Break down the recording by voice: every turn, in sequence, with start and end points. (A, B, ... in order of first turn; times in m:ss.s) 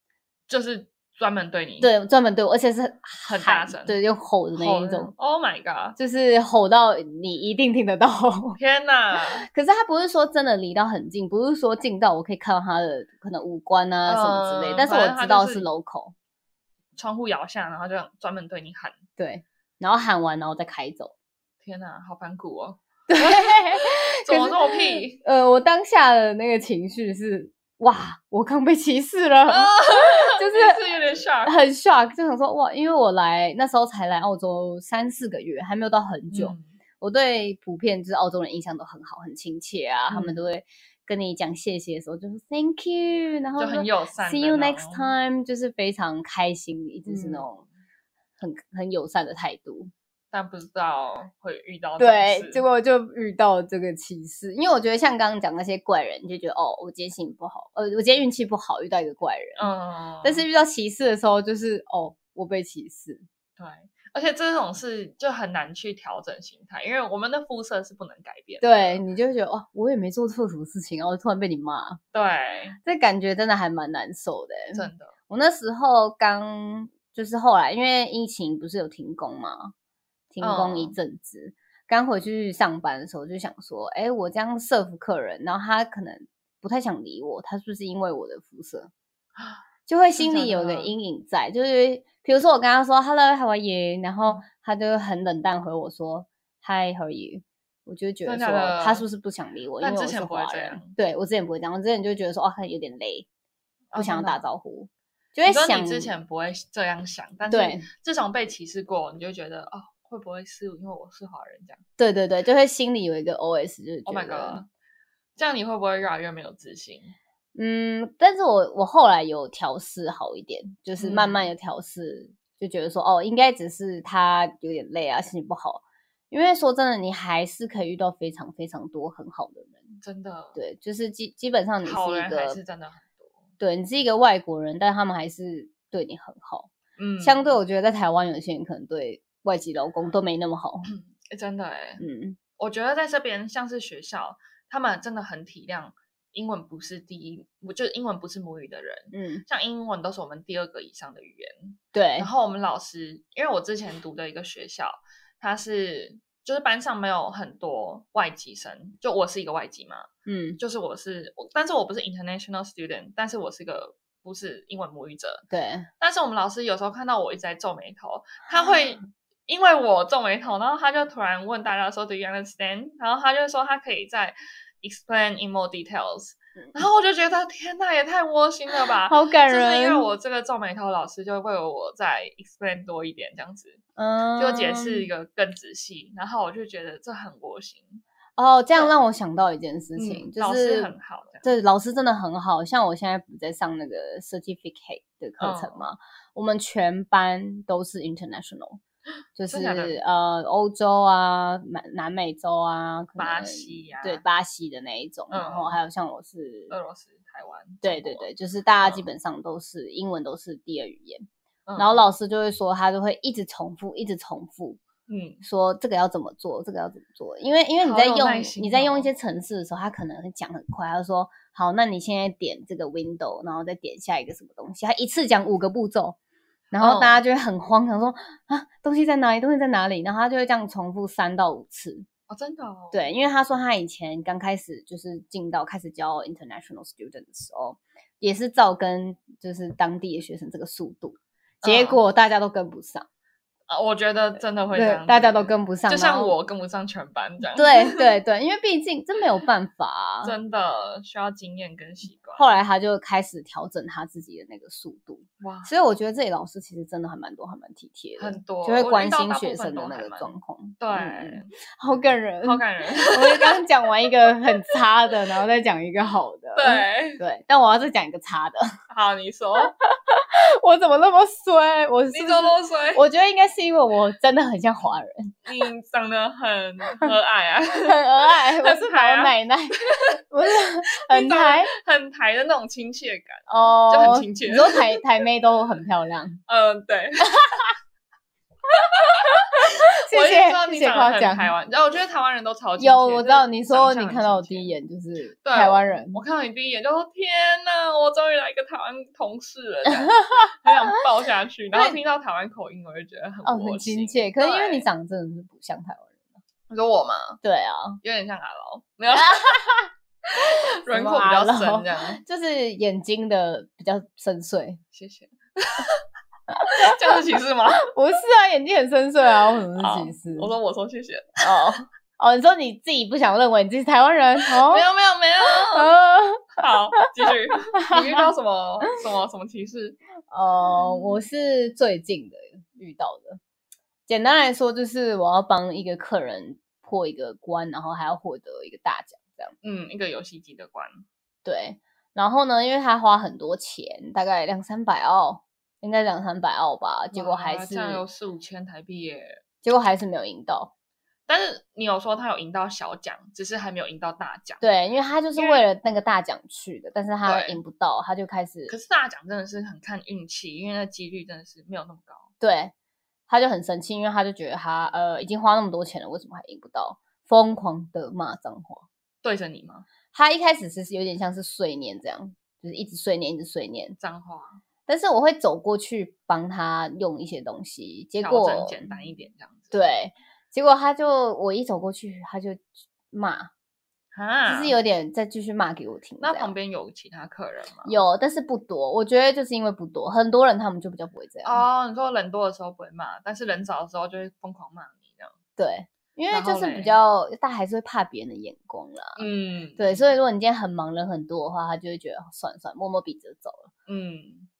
0:00.5-0:01.9 A
0:01.8-0:05.1 B
0:03.2-0:04.0 A
0:04.5-0:06.0 A
0:06.0-0:08.6 B
0:08.6-0:09.5 A
0:09.4-0:16.1 B
0:14.0-0:15.7 A
0:17.0-0:19.0 A
0:19.2-0:21.1 B
0:21.6-0:25.2 A
0:23.1-0:30.8 B
0:29.5-0:31.6 A
0:31.4-0:47.6 B
0:36.3-0:36.8 A
0:40.1-0:40.4 A
0:43.6-0:45.1 A
0:47.0-0:47.5 A
0:48.4-0:49.9 B
0:50.3-0:52.6 A
0:52.0-0:59.7 B
0:59.6-1:00.4 A
1:00.2-1:03.2 B
1:03.6-1:09.0 A
1:08.6-1:12.0 B
1:12.1-1:12.8 A
1:12.8-1:19.7 B
1:14.7-1:15.1 A
1:20.3-1:28.9 B
1:20.4-1:21.0 A
1:29.4-1:29.6 A
1:29.9-1:43.2 B
1:30.2-1:30.9 A
1:38.2-1:39.0 A
1:39.8-1:41.0 A
1:43.9-1:44.4 A
1:44.0-1:46.1 B
1:45.4-1:51.8 A
1:47.5-1:47.9 B
1:52.0-1:54.6 B
1:54.0-1:54.7 A
1:55.4-1:57.1 A
1:57.5-2:10.0 B
2:01.0-2:01.4 A
2:10.0-2:10.6 A
2:10.5-2:12.6 B
2:11.8-2:13.4 A
2:13.6-2:20.9 B
2:17.0-2:17.5 A
2:20.8-2:22.0 A
2:22.0-2:22.4 B
2:22.6-2:45.4 A
2:29.1-2:29.4 B
2:31.9-2:32.3 B
2:40.2-2:40.6 B
2:45.5-2:45.9 B
2:46.0-3:03.8 A
2:59.1-3:00.1 B
3:04.0-3:05.1 B
3:04.4-3:08.0 A
3:08.4-3:18.8 B
3:10.0-3:11.5 A
3:15.4-3:15.8 A
3:19.4-3:26.7 B
3:19.5-3:20.0 A
3:23.2-3:24.2 A
3:25.3-3:25.8 A
3:26.7-3:28.3 A
3:27.8-3:31.2 B
3:28.8-3:29.0 A
3:31.7-3:32.0 A
3:31.8-3:34.8 B
3:35.1-3:35.4 A
3:35.4-3:46.2 B
3:37.8-3:39.1 A
3:46.7-3:52.0 B
3:46.8-3:47.2 A
3:52.3-3:53.1 A
3:52.9-4:03.0 B
4:01.6-4:02.0 A
4:03.7-4:08.0 A
4:04.7-4:06.3 B
4:07.5-4:10.4 B
4:10.2-4:12.6 A
4:12.4-4:28.7 B
4:15.4-4:15.7 A
4:18.2-4:21.5 A
4:22.4-4:23.6 A
4:26.6-4:27.2 A
4:28.9-4:29.7 A
4:29.8-4:35.3 B
4:32.1-4:33.0 A
4:35.4-4:39.3 A
4:37.8-4:39.8 B
4:40.3-4:41.7 B
4:40.8-4:45.0 A
4:43.5-4:46.4 B
4:46.5-4:47.7 A
4:48.7-4:54.7 A
4:50.1-4:51.5 B
4:52.8-4:56.2 B
4:55.4-5:04.8 A
5:00.0-5:00.7 B
5:01.7-5:02.0 B
5:03.4-5:06.2 B
5:06.7-5:07.4 A
5:07.4-5:08.0 B
5:08.0-5:09.7 A
5:09.1-5:09.9 B
5:10.3-5:12.2 A
5:10.9-5:14.8 B
5:14.9-5:16.0 A
5:16.5-5:16.9 B
5:16.6-5:17.9 A
5:17.8-5:20.5 B
5:19.8-5:21.7 A
5:21.4-5:24.8 B
5:24.4-5:25.9 A
5:25.7-5:26.6 B
5:26.6-5:30.0 A
5:27.8-5:28.3 B
5:30.3-5:33.4 B
5:30.8-5:31.1 A
5:34.1-5:39.5 B
5:39.6-5:41.0 A
5:41.4-5:48.0 B
5:47.1-5:49.4 A
5:49.6-5:50.7 B
5:51.3-5:54.6 A
5:54.6-5:58.7 B
5:55.3-5:55.6 A
5:57.2-5:57.6 A
5:58.7-6:02.3 A
6:02.4-6:02.7 B
6:03.3-6:08.9 B
6:09.2-6:09.8 A
6:10.1-6:14.0 B
6:14.0-6:14.6 A
6:14.9-6:18.9 B
6:18.2-6:19.8 A
6:19.7-6:23.5 B
6:24.1-6:24.8 A
6:24.5-6:26.5 B
6:26.2-6:28.0 A
6:27.8-6:31.6 B
6:31.4-6:35.3 A
6:35.6-6:39.2 B
6:36.3-6:37.0 A
6:39.2-6:40.1 A
6:39.8-6:43.7 B
6:43.9-6:44.5 A